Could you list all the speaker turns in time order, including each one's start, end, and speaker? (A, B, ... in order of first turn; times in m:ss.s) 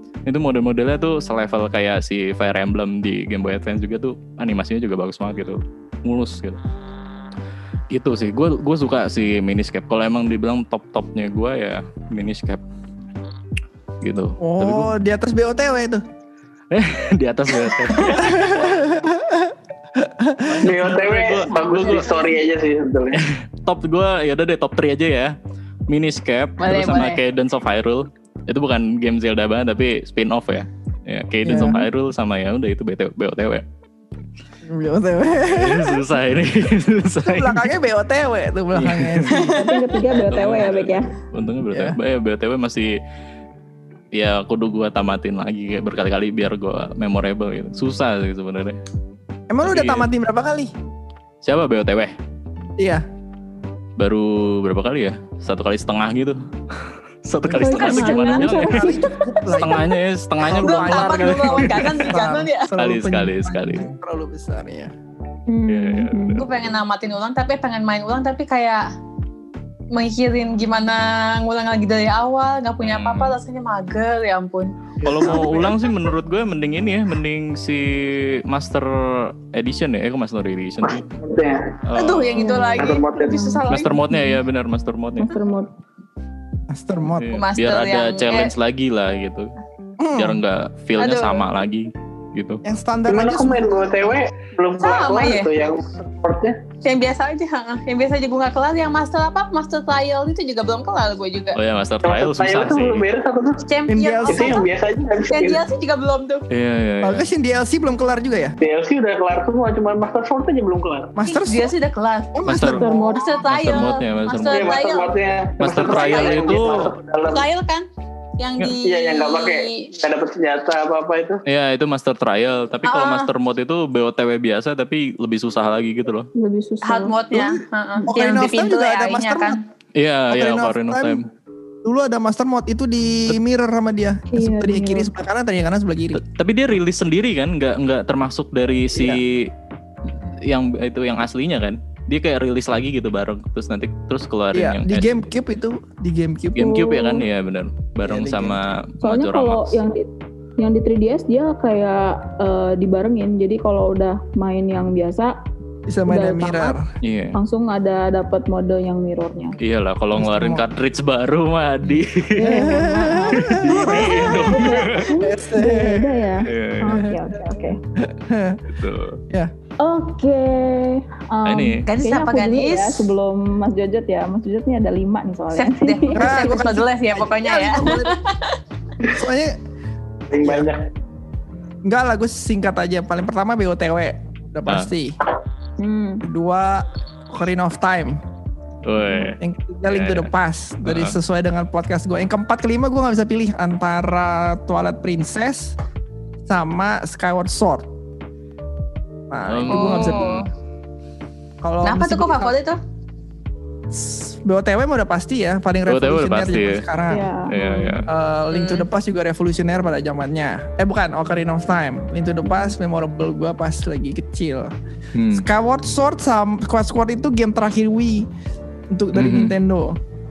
0:00.3-0:06.6 A
0:07.9-0:12.6 A
0:14.0-0:14.9 A
0:14.4-0:16.0 B
0:16.7-0:18.6 A
0:18.0-0:18.4 C
0:18.1-0:20.7 B
0:20.4-0:22.2 A
0:20.6-0:23.2 D
0:23.2-0:25.4 A
0:25.9-0:33.6 A
0:26.6-0:27.2 C
0:31.4-0:31.9 B
0:34.6-0:36.1 B
0:35.5-0:37.7 A
0:37.2-0:39.6 B
0:38.7-0:39.4 A
0:39.3-0:40.0 C
0:39.6-0:41.1 E
0:40.1-0:43.0 A
0:41.7-0:42.0 B
0:44.1-0:48.8 A
0:49.5-0:50.7 B
0:49.6-0:50.1 A
0:51.4-0:52.1 A
0:52.8-0:53.0 B
0:54.0-0:59.0 A
0:57.4-0:57.9 B
0:57.6-0:59.2 E
0:57.8-0:58.6 C
0:58.5-0:59.9 B
0:59.6-1:02.1 A
1:00.5-1:02.7 C
1:00.5-1:04.9 B
1:02.8-1:03.9 A
1:05.5-1:06.4 E
1:05.7-1:06.5 A
1:06.4-1:08.9 C
1:09.9-1:14.7 C
1:12.8-1:13.4 A
1:15.0-1:21.1 A
1:15.0-1:15.6 B
1:21.2-1:21.8 D
1:21.9-1:22.6 A
1:21.9-1:24.0 C
1:22.4-1:24.4 E
1:22.8-1:23.6 D
1:23.7-1:25.3 A
1:25.2-1:25.7 E
1:26.7-1:27.4 B
1:27.2-1:29.5 A
1:27.3-1:28.5 C
1:30.0-1:30.4 B
1:30.2-1:32.6 A
1:31.0-1:31.5 C
1:32.6-1:33.7 B
1:33.1-1:36.7 D
1:34.8-1:35.5 C
1:36.8-1:41.6 C
1:41.6-1:43.1 A
1:42.0-1:43.6 D
1:43.6-1:44.7 C
1:43.9-1:44.6 B
1:44.3-1:45.6 D
1:45.3-1:46.4 C
1:46.5-1:47.3 A
1:47.0-1:48.6 B
1:48.6-1:51.2 D
1:51.2-1:51.7 B
1:51.2-1:52.4 C
1:52.3-1:53.2 B
1:52.4-1:52.9 A
1:52.6-1:53.4 E
1:53.0-1:55.2 C
1:53.4-1:54.8 A
1:54.5-1:57.5 D
1:55.6-1:56.9 A
1:55.8-1:56.6 C
1:57.2-1:57.9 C
1:58.4-1:59.9 C
1:58.8-2:01.4 D
2:01.5-2:06.3 A
2:02.8-2:03.3 C
2:06.4-2:07.2 E
2:06.8-2:09.6 C
2:07.3-2:09.6 B
2:10.0-2:11.3 A
2:10.3-2:11.2 B
2:11.8-2:16.2 B
2:14.3-2:15.1 E
2:16.1-2:19.5 A
2:18.9-2:19.2 B
2:20.1-2:25.2 A
2:24.5-2:26.8 B
2:26.6-2:29.7 A
2:26.7-2:27.2 E
2:28.0-2:28.6 B
2:29.0-2:35.4 E
2:35.9-2:36.9 B
2:36.1-2:36.8 E
2:37.0-2:37.4 A
2:37.3-2:39.6 E
2:39.6-2:42.8 A
2:40.1-2:40.7 B
2:42.4-2:47.8 E
2:42.4-2:46.4 B
2:43.4-2:45.1 A
2:46.5-2:47.2 A
2:48.0-2:48.8 B
2:48.7-2:49.2 A
2:49.8-2:56.6 E
2:51.4-2:51.8 A
2:51.8-2:53.1 C
2:55.5-2:58.6 C
2:56.1-2:58.2 B
2:59.1-2:59.6 B
3:00.3-3:00.8 D
3:00.4-3:00.7 B
3:01.8-3:05.2 B
3:04.7-3:04.9 A
3:05.8-3:06.3 E
3:06.2-3:08.2 B
3:08.8-3:10.3 A
3:09.4-3:15.8 B
3:10.8-3:11.2 A
3:16.5-3:17.9 B
3:19.3-3:20.3 B
3:19.5-3:20.4 A
3:19.7-3:20.5 C
3:21.6-3:22.5 B
3:21.8-3:22.8 C
3:23.9-3:27.3 B
3:25.9-3:26.8 A
3:27.1-3:28.0 E
3:27.5-3:28.1 A
3:28.1-3:34.7 B
3:28.5-3:28.9 C
3:32.4-3:32.7 E
3:35.2-3:35.4 A
3:35.3-3:38.3 B
3:38.9-3:40.0 B
3:39.1-3:39.6 A